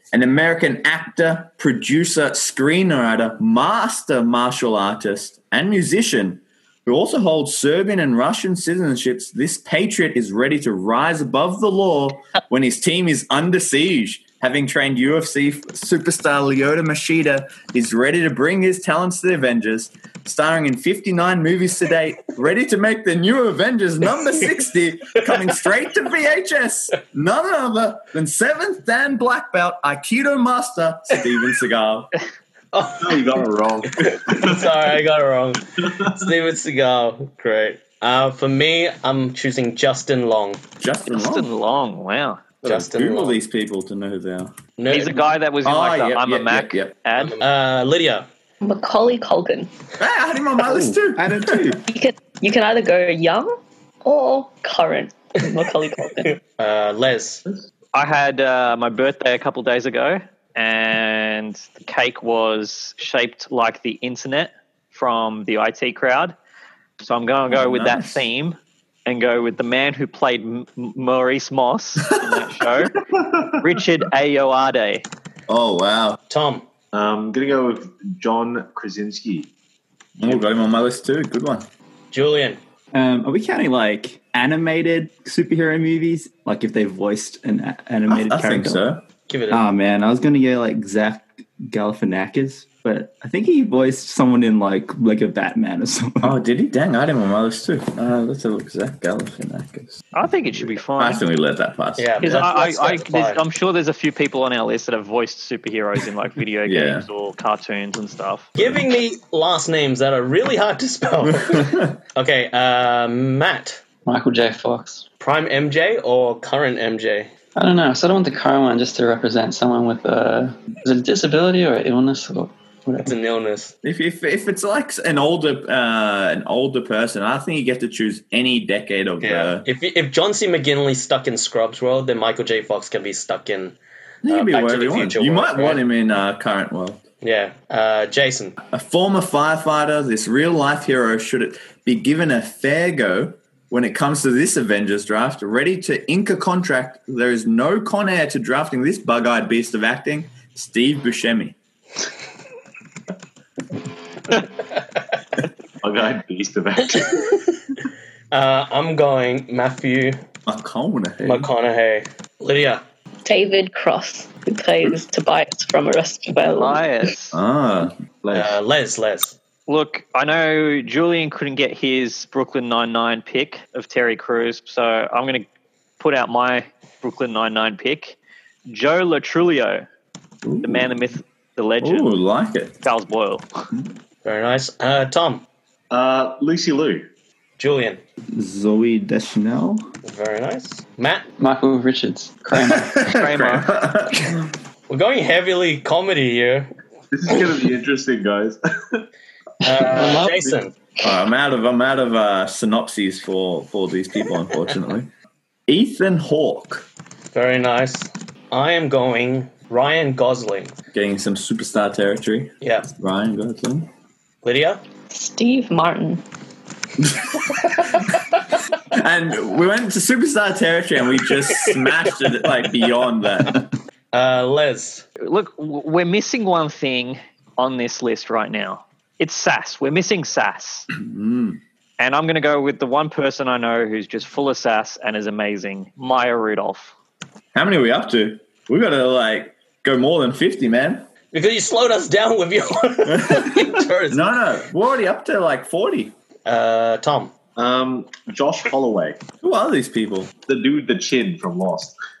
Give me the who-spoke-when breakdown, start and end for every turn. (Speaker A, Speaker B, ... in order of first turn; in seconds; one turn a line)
Speaker A: 0.1-32.1
Speaker B: 32.7-33.4
Speaker C: 33.0-35.0
Speaker B: 34.0-40.6
Speaker C: 35.8-36.1
Speaker A: 40.8-41.5
Speaker D: 41.1-42.5
Speaker A: 42.6-44.5
Speaker B: 42.6-43.4
Speaker B: 44.8-45.3
Speaker D: 44.9-47.4
Speaker A: 45.6-47.0
Speaker B: 47.1-48.3
Speaker E: 48.6-49.7
Speaker A: 50.0-51.8
Speaker F: 50.7-51.8
Speaker E: 51.9-56.4
Speaker B: 56.5-57.4
Speaker D: 57.9-66.3
Speaker D: 67.0-72.9
Speaker A: 67.5-68.2
Speaker A: 72.3-72.6
Speaker A: 73.2-73.5
Speaker D: 73.6-75.0
Speaker A: 75.5-76.2
Speaker B: 76.3-76.6
Speaker C: 76.9-79.5
Speaker A: 80.2-81.7
Speaker B: 82.1-82.6
Speaker F: 82.9-88.8
Speaker A: 88.1-89.0
Speaker B: 89.3-89.6
Speaker F: 89.5-96.4
Speaker A: 96.2-100.0
Speaker D: 100.1-101.2
Speaker A: 100.5-102.2
Speaker B: 102.0-103.4
Speaker D: 102.2-108.5
Speaker A: 106.6-107.1
Speaker B: 108.6-113.8
Speaker A: 111.2-112.0
Speaker G: 114.0-115.0
Speaker B: 115.2-117.3
Speaker G: 117.5-123.1
Speaker B: 123.0-123.7
Speaker A: 123.8-129.6
Speaker B: 129.2-135.8
Speaker A: 134.2-137.0
Speaker B: 137.2-138.6
Speaker A: 138.7-151.6
Speaker C: 155.8-157.4
Speaker B: 158.3-160.2
Speaker A: 160.4-161.5
Speaker B: 161.2-162.8
Speaker E: 163.2-166.8
Speaker D: 166.5-167.4
Speaker A: 167.3-168.0
Speaker C: 168.2-168.6
Speaker B: 168.3-169.3
Speaker D: 169.7-175.5
Speaker D: 176.0-179.9
Speaker A: 180.4-180.9
Speaker D: 180.6-182.1
Speaker A: 181.8-182.8
Speaker D: 182.8-183.5
Speaker B: 184.2-185.4
Speaker C: 185.9-187.1
Speaker B: 187.6-188.0
Speaker F: 188.3-189.8
Speaker B: 190.0-191.2
Speaker G: 191.4-193.1
Speaker A: 192.5-194.5
Speaker D: 193.1-193.7
Speaker B: 194.9-196.7
Speaker C: 197.1-199.1
Speaker B: 199.6-200.7
Speaker G: 199.8-200.5
Speaker A: 201.0-205.1
Speaker A: 205.7-206.8
Speaker B: 207.3-210.7
Speaker A: 210.9-213.9
Speaker B: 212.6-212.9
Speaker B: 214.4-214.8
Speaker E: 215.1-216.2
Speaker A: 217.0-218.0
Speaker A: 218.9-223.7
Speaker B: 224.1-225.1
Speaker D: 225.2-230.9
Speaker A: 230.9-231.6
Speaker D: 232.0-236.9
Speaker A: 237.5-241.1
Speaker B: 241.3-244.3
Speaker A: 243.1-246.1
Speaker B: 246.4-247.3
Speaker C: 247.5-249.2
Speaker A: 249.4-250.3
Speaker C: 250.5-252.0